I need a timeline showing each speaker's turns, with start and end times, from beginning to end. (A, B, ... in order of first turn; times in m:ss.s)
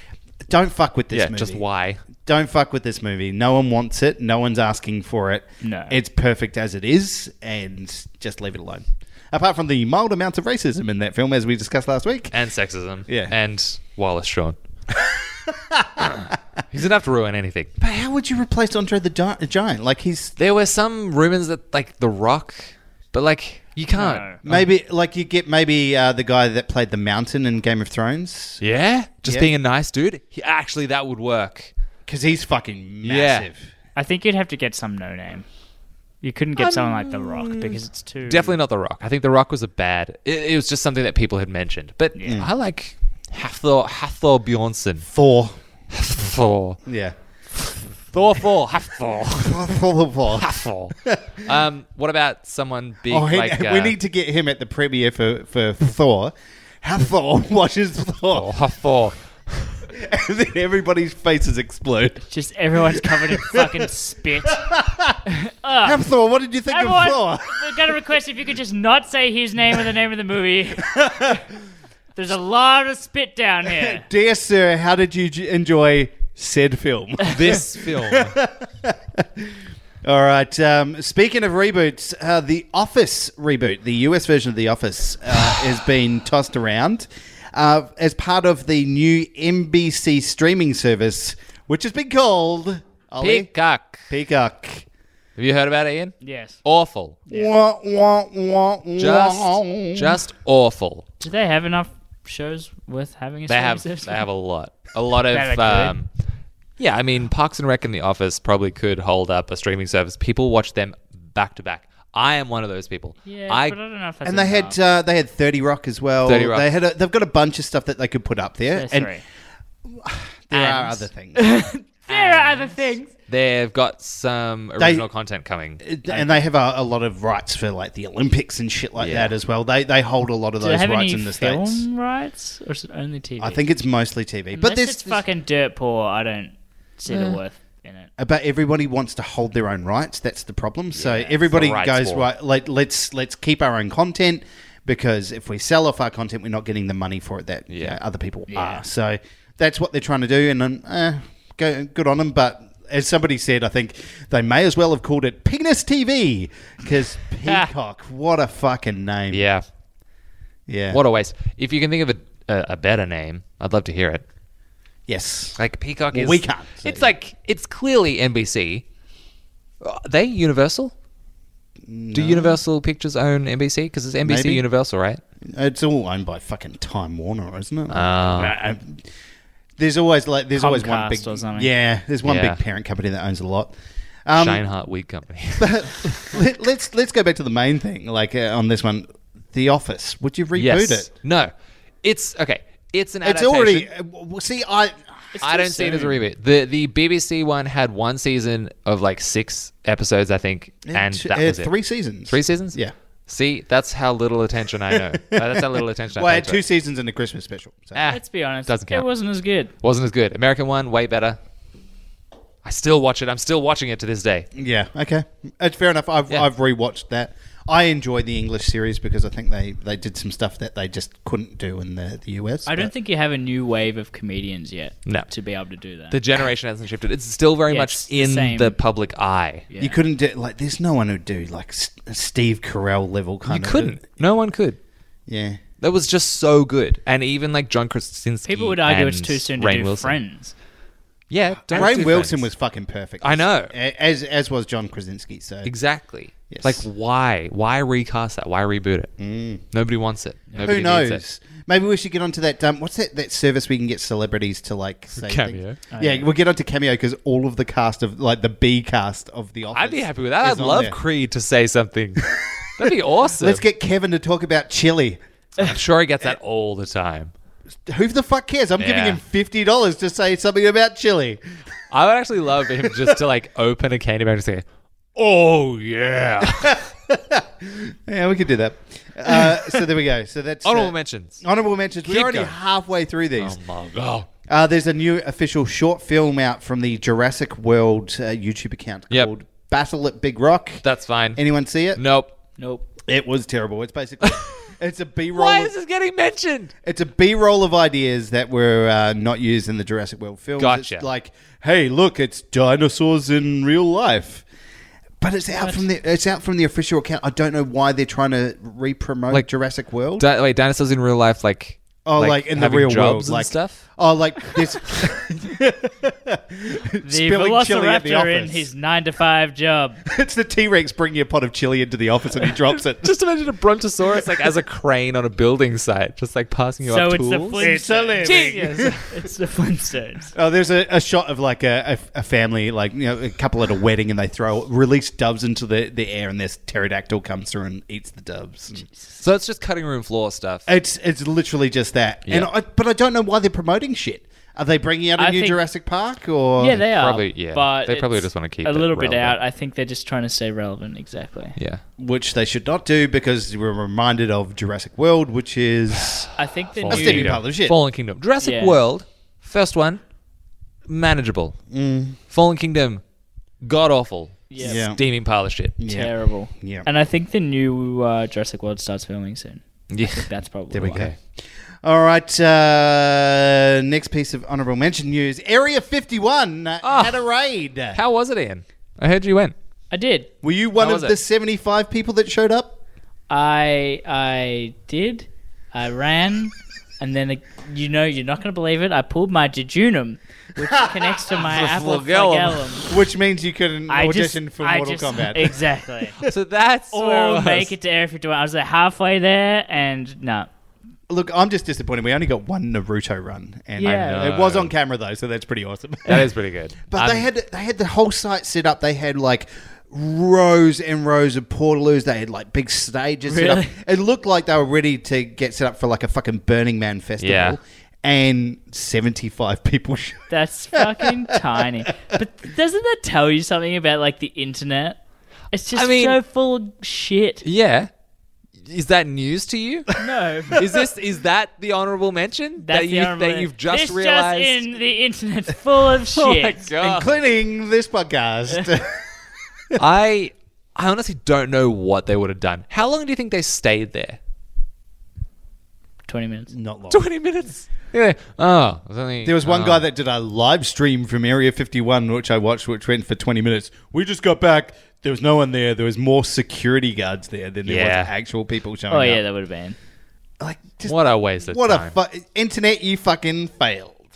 0:00.5-0:01.6 A
0:01.1-0:02.0 B
0:02.2-0:12.3 A
0:05.6-0:06.0 C
0:12.3-0:14.6 B
0:13.1-0:13.3 A
0:15.0-0:16.4 A
0:16.1-0:17.7 B
0:17.8-0:20.3 A
0:20.4-0:24.7 B
0:23.9-0:24.4 C
0:24.4-0:28.6 A
0:28.6-0:31.7 B
0:32.1-0:33.7 A
0:33.0-0:33.5 B
0:34.0-0:35.4 C
0:36.2-0:38.6 C
0:36.6-0:45.0 B
0:42.2-0:42.4 C
0:45.0-0:45.6 A
0:45.9-0:46.8 B
0:46.8-0:47.2 A
0:47.6-0:49.8 B
0:49.4-0:50.5 A
0:50.3-0:53.9 B
0:51.0-0:51.4 A
0:53.1-0:58.5 A
0:58.3-0:59.8 B
0:59.9-1:02.2 A
1:02.3-1:04.6 C
1:03.0-1:03.9 A
1:04.4-1:05.2 A
1:05.2-1:06.0 C
1:05.8-1:07.9 A
1:06.7-1:11.4 C
1:10.8-1:11.4 A
1:12.2-1:14.0 C
1:13.6-1:33.5 A
1:17.2-1:18.4 B
1:33.2-1:34.1 B
1:34.1-1:34.8 A
1:35.4-1:37.2 B
1:36.2-1:36.6 C
1:37.3-1:40.2 A
1:39.0-1:41.0 B
1:41.2-1:44.2 C
1:43.5-1:46.1 B
1:45.3-1:46.0 C
1:46.8-1:53.8 B
1:53.2-1:54.8 C
1:54.2-1:59.1 A
1:56.2-1:56.7 B
1:58.7-1:59.2 C
1:59.8-2:01.4 A
2:00.5-2:03.1 C
2:02.1-2:02.7 B
2:03.3-2:06.0 B
2:04.8-2:05.0 A
2:05.8-2:11.8 A
2:09.0-2:09.3 B
2:10.6-2:13.6 C
2:13.4-2:15.2 A
2:14.5-2:18.1 C
2:17.1-2:17.4 B
2:18.2-2:39.4 A
2:20.9-2:22.3 B
2:27.7-2:28.0 B
2:28.5-2:28.8 C
2:39.3-2:39.6 B
2:40.7-2:41.0 A
2:40.9-2:44.2 B
2:45.1-2:45.6 A
2:45.6-2:48.8 B
2:46.1-2:47.1 A
2:49.8-2:50.9 B
2:51.8-2:52.6 A
2:52.1-2:55.2 B
2:54.2-2:54.6 A
2:55.4-2:59.1 A
2:57.9-2:58.6 B
2:59.8-3:03.7 A
3:00.5-3:01.7 C
3:02.2-3:02.6 B
3:04.2-3:04.6 A
3:04.3-3:06.3 B
3:05.6-3:11.1 A
3:10.5-3:11.5 B
3:12.0-3:13.9 B
3:13.2-3:15.0 A
3:15.3-3:16.2 C
3:15.4-3:21.7 B
3:20.8-3:22.9 A
3:22.3-3:26.6 B
3:24.9-3:28.1 A
3:27.9-3:29.0 B
3:28.1-3:29.7 C
3:29.8-3:31.4 B
3:32.6-3:34.5 B
3:34.6-3:42.9 A
3:42.6-3:46.2 C
3:46.1-3:49.6 B
3:47.7-3:48.8 C
3:49.7-3:50.0 C
3:49.8-3:54.0 A
3:53.4-3:54.8 B
3:55.3-3:55.6 A
3:55.8-4:00.2 B
3:58.4-4:00.5 C
4:01.3-4:02.5 B
4:01.7-4:05.7 A
4:03.2-4:03.7 B
4:05.6-4:09.1 B
4:06.5-4:06.8 A
4:09.2-4:09.6 A
4:09.7-4:11.2 B
4:10.6-4:21.0 A
4:15.1-4:15.8 B
4:15.9-4:16.3 C
4:19.7-4:22.2 B
4:22.8-4:23.6 B
4:22.8-4:25.2 A
4:25.6-4:27.3 B
4:27.8-4:31.4 A
4:28.8-4:29.2 B
4:31.9-4:34.6 B
4:35.2-4:36.8 B
4:36.4-4:43.6 A
4:39.4-4:39.7 B
4:40.6-4:41.4 B
4:42.0-4:42.5 B
4:43.4-4:44.3 B
4:44.5-4:50.8 A
4:50.8-4:51.4 B
4:51.4-4:52.0 A
4:52.0-4:52.3 B
4:52.6-4:52.9 C
4:53.0-4:55.7 A
4:55.3-4:56.7 B
4:56.8-5:04.4 A
5:00.6-5:01.0 B
5:05.2-5:10.2 A
5:05.6-5:05.8 C
5:10.2-5:13.8 B
5:12.0-5:18.7 A
5:17.0-5:20.0 C
5:20.0-5:23.1 A
5:22.9-5:27.6 B
5:26.8-5:28.3 C
5:27.6-5:28.9 A
5:28.2-5:29.1 B
5:29.0-5:30.3 C
5:30.3-5:38.8 A
5:39.2-5:40.7 B
5:40.7-5:46.8 A
5:45.2-5:45.6 C
5:46.6-5:51.5 C
5:46.9-5:49.4 B
5:51.6-5:51.8 B
5:52.0-5:56.3 A
5:56.0-6:00.0 B
5:56.4-5:57.3 C
5:56.8-5:57.8 A
5:58.4-5:58.8 C
6:00.9-6:01.6 B
6:01.7-6:02.2 A
6:02.3-6:03.0 B
6:03.6-6:05.8 B
6:04.5-6:04.8 C
6:04.6-6:05.0 A
6:05.8-6:06.9 A
6:05.9-6:11.1 C
6:09.9-6:11.1 B
6:10.7-6:11.2 A
6:11.8-6:18.0 A
6:16.8-6:17.2 B
6:17.9-6:19.5 B
6:19.9-6:20.3 C
6:20.4-6:22.8 A
6:20.8-6:21.2 B
6:23.3-6:32.9 C
6:31.3-6:32.9 B
6:32.9-6:36.3 A
6:33.9-6:36.2 C
6:36.2-6:37.7 B
6:36.9-6:40.5 C
6:41.1-6:46.3 A
6:43.8-6:44.2 C
6:43.8-6:44.7 B
6:46.1-6:47.3 B
6:46.9-7:01.5 A
6:53.2-6:53.7 C
6:57.2-6:57.6 B
7:00.3-7:05.0 C
7:05.5-7:07.4 C
7:05.8-7:06.2 B
7:07.4-7:07.9 B
7:08.6-7:09.9 B
7:10.0-7:10.6 C
7:10.5-7:14.7 B
7:12.6-7:16.6 C
7:16.1-7:17.2 B
7:16.8-7:19.1 A
7:19.8-7:24.2 B
7:26.1-7:26.5 C
7:26.5-7:27.0 A
7:26.9-7:29.8 B
7:29.2-7:39.2 A
7:37.6-7:38.1 B
7:38.9-7:39.8 C
7:40.4-7:44.0 A
7:40.8-7:42.0 B